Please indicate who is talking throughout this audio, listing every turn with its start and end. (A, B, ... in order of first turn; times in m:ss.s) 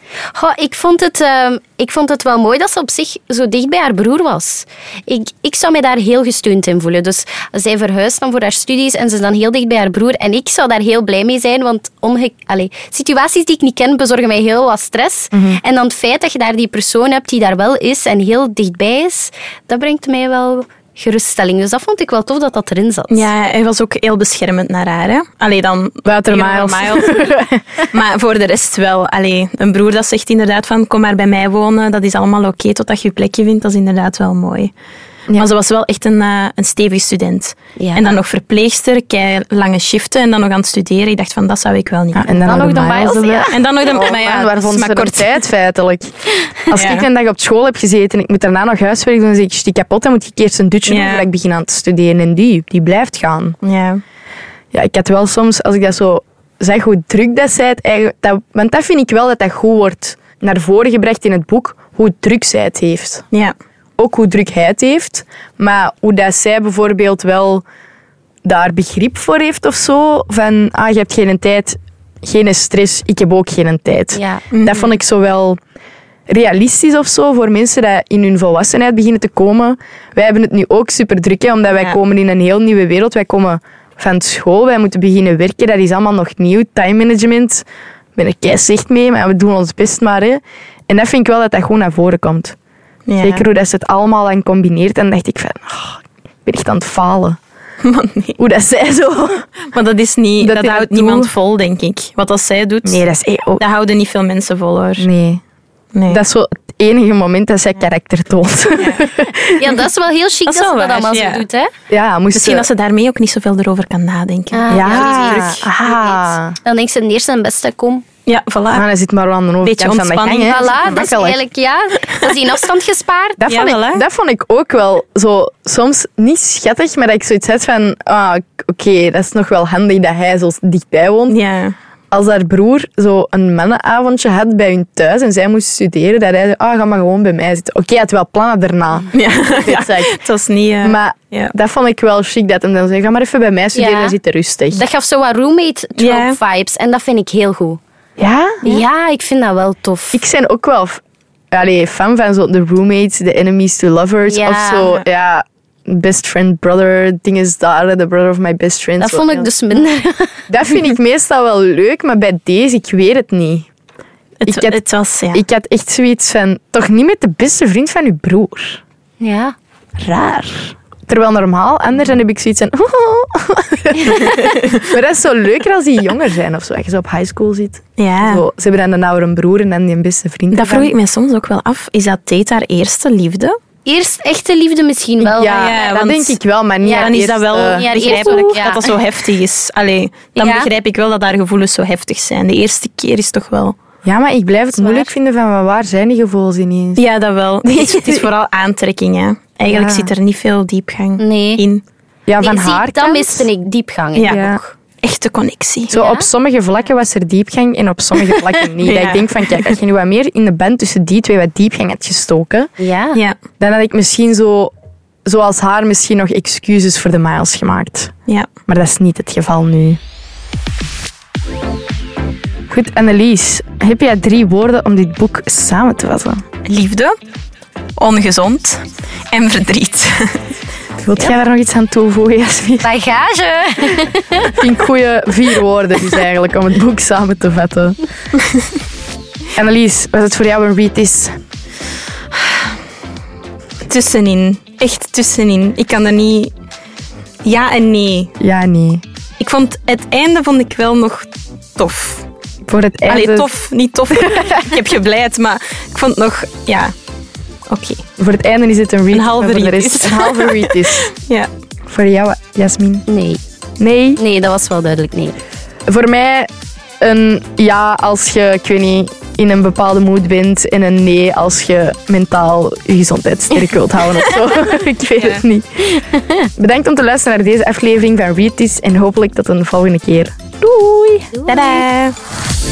0:00.3-0:23.3 A
0:15.3-0:15.6 B
0:23.1-0:27.3 C
0:26.0-0:27.6 B
0:27.9-0:34.7 C
0:35.3-0:42.4 C
0:37.8-0:38.1 A
0:42.1-0:46.1 B
0:42.3-0:44.1 A
0:43.5-0:45.4 C
0:46.6-0:53.6 B
0:46.7-0:47.1 C
0:50.9-0:51.3 C
0:53.6-0:54.0 C
0:54.7-1:03.2 B
1:04.0-1:07.6 B
1:08.4-1:15.6 B
1:14.1-1:14.4 A
1:14.5-1:14.9 C
1:16.3-1:27.6 B
1:28.2-1:32.5 B
1:33.1-1:33.4 C
1:33.2-1:37.4 B
1:37.8-1:38.4 C
1:38.4-1:39.5 B
1:39.7-1:43.0 C
1:40.4-1:41.3 B
1:42.8-1:43.6 B
1:43.6-1:45.1 C
1:45.0-1:45.4 B
1:45.9-1:46.2 C
1:46.1-1:49.8 B
1:48.8-1:49.0 C
1:49.6-1:51.7 A
1:50.4-1:51.4 C
1:51.9-1:52.7 B
1:52.3-1:55.7 C
1:54.5-1:58.0 A
1:54.7-1:56.6 B
1:58.2-1:58.8 C
1:58.7-2:01.4 B
1:59.6-2:01.1 C
2:00.5-2:03.4 A
2:03.4-2:11.4 B
2:03.4-2:04.0 C
2:11.3-2:11.7 C
2:12.1-2:20.1 B
2:19.1-2:21.5 C
2:20.8-2:24.8 B
2:23.7-2:24.1 A
2:24.7-2:27.8 A
2:26.0-2:26.4 C
2:28.2-2:28.8 B
2:28.6-2:30.2 A
2:30.1-2:39.5 B
2:34.3-2:34.9 A
2:39.0-2:40.4 A
2:40.5-2:43.7 B
2:44.4-2:45.4 C
2:44.5-2:48.8 B
2:49.2-2:49.5 A
2:50.0-3:00.9 B
2:58.0-2:58.4 C
3:00.5-3:03.6 C
3:03.8-3:05.8 A
3:05.2-3:08.6 B
3:05.5-3:06.4 C
3:06.8-3:07.2 A
3:06.9-3:13.8 C
3:07.7-3:08.9 A
3:10.4-3:10.7 A
3:14.0-3:17.0 B
3:14.8-3:15.1 A
3:17.0-3:21.8 C
3:17.6-3:18.3 B
3:19.7-3:20.1 B
3:21.2-3:21.6 A
3:22.3-3:23.5 B
3:22.4-3:24.7 A
3:24.2-3:24.4 C
3:24.2-3:24.6 B
3:25.0-3:25.9 C
3:25.9-3:32.7 B
3:25.9-3:26.3 A
3:28.8-3:29.7 C
3:32.8-3:33.2 A
3:33.6-3:34.7 B
3:35.2-3:38.1 B
3:38.7-3:40.0 B
3:42.7-3:46.4 B
3:46.6-3:47.1 C
3:48.0-3:50.4 C
3:51.0-3:52.9 B
3:52.8-3:54.6 A
3:54.5-3:58.0 B
3:59.5-4:01.4 B
4:03.9-4:06.5 C
4:07.4-4:08.3 C
4:08.4-4:09.0 B
4:09.4-4:12.2 C
4:12.7-4:13.5 B
4:13.1-4:16.9 C
4:17.7-4:18.0 C
4:18.2-4:21.1 B
4:19.1-4:21.5 C
4:21.9-4:23.0 B
4:23.1-4:23.4 A
4:23.8-4:24.2 B
4:24.2-4:25.4 A
4:25.9-4:26.5 B
4:27.0-4:36.0 B
4:36.0-4:36.4 A
4:36.6-4:41.4 B
4:41.4-4:41.7 A
4:41.4-4:42.2 C